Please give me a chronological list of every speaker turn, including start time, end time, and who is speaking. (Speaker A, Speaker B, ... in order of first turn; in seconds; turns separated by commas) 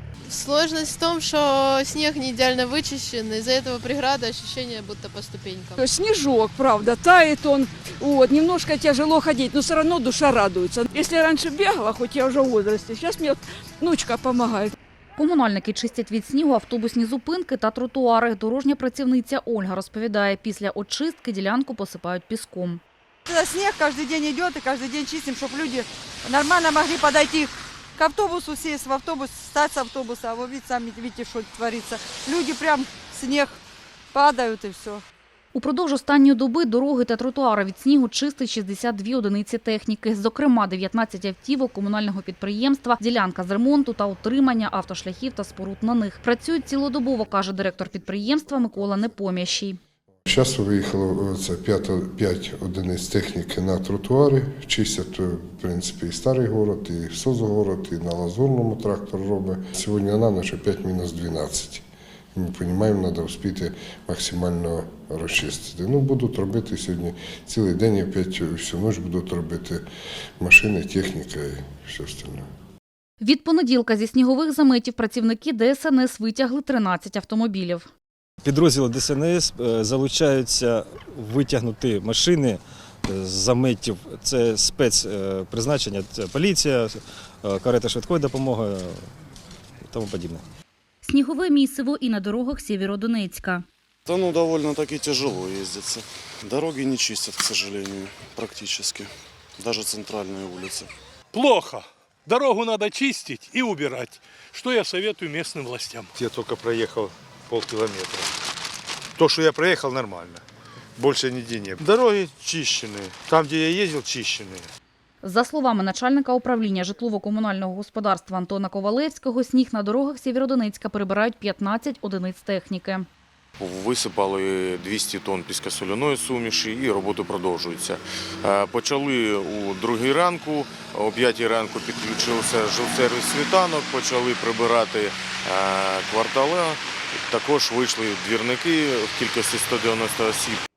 Speaker A: 0.3-5.8, Speaker B: 5.8-14.8, Speaker C: 15.2-22.8, Speaker D: 23.3-33.6, Speaker D: 34.1-35.0, Speaker C: 35.5-49.8, Speaker E: 50.3-61.8, Speaker E: 62.3-69.8, Speaker E: 70.4-72.5, Speaker C: 73.2-77.9, Speaker F: 78.4-89.0, Speaker F: 89.9-90.4, Speaker C: 91.0-93.7, Speaker G: 94.1-100.9, Speaker H: 101.3-106.1, Speaker I: 106.1-108.3, Speaker I: 109.2-110.4, Speaker I: 111.0-114.7, Speaker C: 115.2-123.0, Speaker J: 123.6-140.6